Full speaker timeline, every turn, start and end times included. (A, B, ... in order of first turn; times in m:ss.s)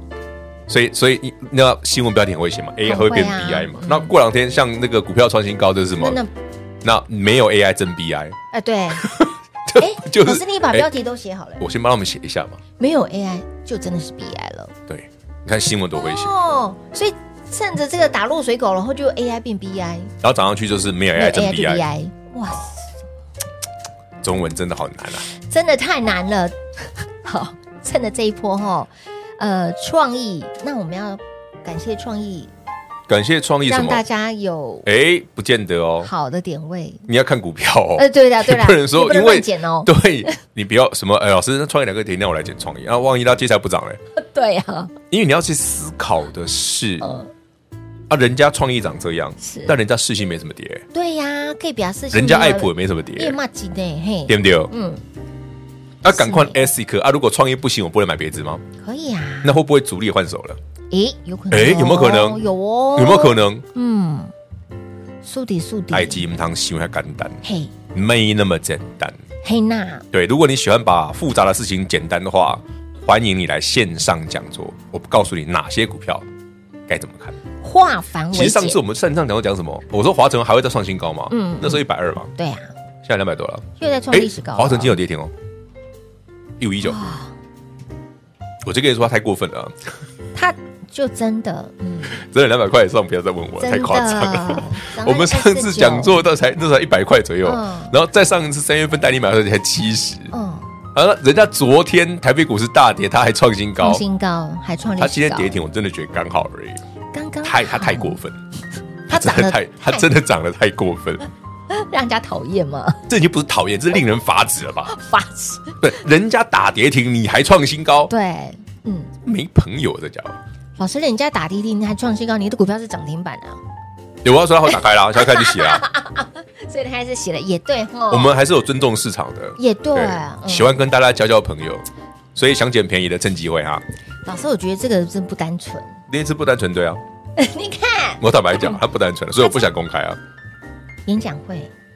0:00.7-0:06.2 A
0:02.8-0:04.1 B
0:06.0-0:06.3 B
0:06.8-0:08.4 A
0:08.5-0:09.1 B
0:08.9-0:10.9 A
0:09.8-0:11.6 B
0:11.6-0:12.6 A
0:12.8-0:14.7 B
0:14.9-0:16.3 A
0:16.0-0:20.1 B
0:20.2-0:21.8 A
0:21.1-0:22.8 B
0:24.2-0:25.2 A
0:25.3-0:32.5 B
0:33.1-0:34.0 A
0:33.7-0:34.9 B
0:34.8-0:36.1 A
0:36.0-0:37.0 B
0:37.1-0:44.0 A
0:38.0-0:40.4 B
0:44.2-0:44.9 B
0:45.1-0:47.0 A
0:47.0-0:47.3 B
0:48.1-0:50.8 A
0:49.4-0:49.7 B
0:50.9-0:55.0 B
0:52.1-0:53.4 A
0:54.3-0:54.7 A
0:56.0-0:58.6 A
0:56.1-0:56.6 B
0:58.8-0:59.6 B
0:59.4-1:00.6 A
1:00.9-1:04.3 B
1:01.5-1:02.4 A
1:03.0-1:03.6 A
1:05.2-1:06.2 B
1:05.9-1:09.2 A
1:07.4-1:07.7 B
1:09.4-1:10.0 B
1:10.1-1:16.2 A
1:16.9-1:17.4 A
1:17.6-1:18.8 B
1:18.3-1:22.3 A
1:21.3-1:21.8 B
1:22.4-1:22.7 B
1:23.0-1:25.3 A
1:23.8-1:25.0 B
1:26.6-1:27.0 A
1:26.8-1:27.3 B
1:28.6-1:29.8 A
1:30.3-1:32.2 B
1:32.1-1:40.3 A
1:33.6-1:36.2 B
1:37.4-1:37.9 B
1:40.3-1:40.7 B
1:40.9-1:44.0 A
1:43.8-1:45.5 B
1:45.0-1:46.8 A
1:47.1-1:48.2 B
1:47.4-1:48.4 A
1:49.1-1:50.1 B
1:49.1-1:51.3 A
1:51.7-1:53.0 B
1:53.1-1:54.9 A
1:54.9-1:55.8 B
1:55.8-1:58.1 A
1:58.1-1:59.1 B
1:59.2-2:00.4 A
2:00.8-2:03.6 B
2:04.2-2:05.8 A
2:05.1-2:08.3 B
2:08.1-2:13.8 A
2:09.6-2:10.8 B
2:14.2-2:16.0 B
2:16.1-2:17.0 A
2:17.4-2:18.8 B
2:18.2-2:20.2 A
2:21.1-2:21.7 B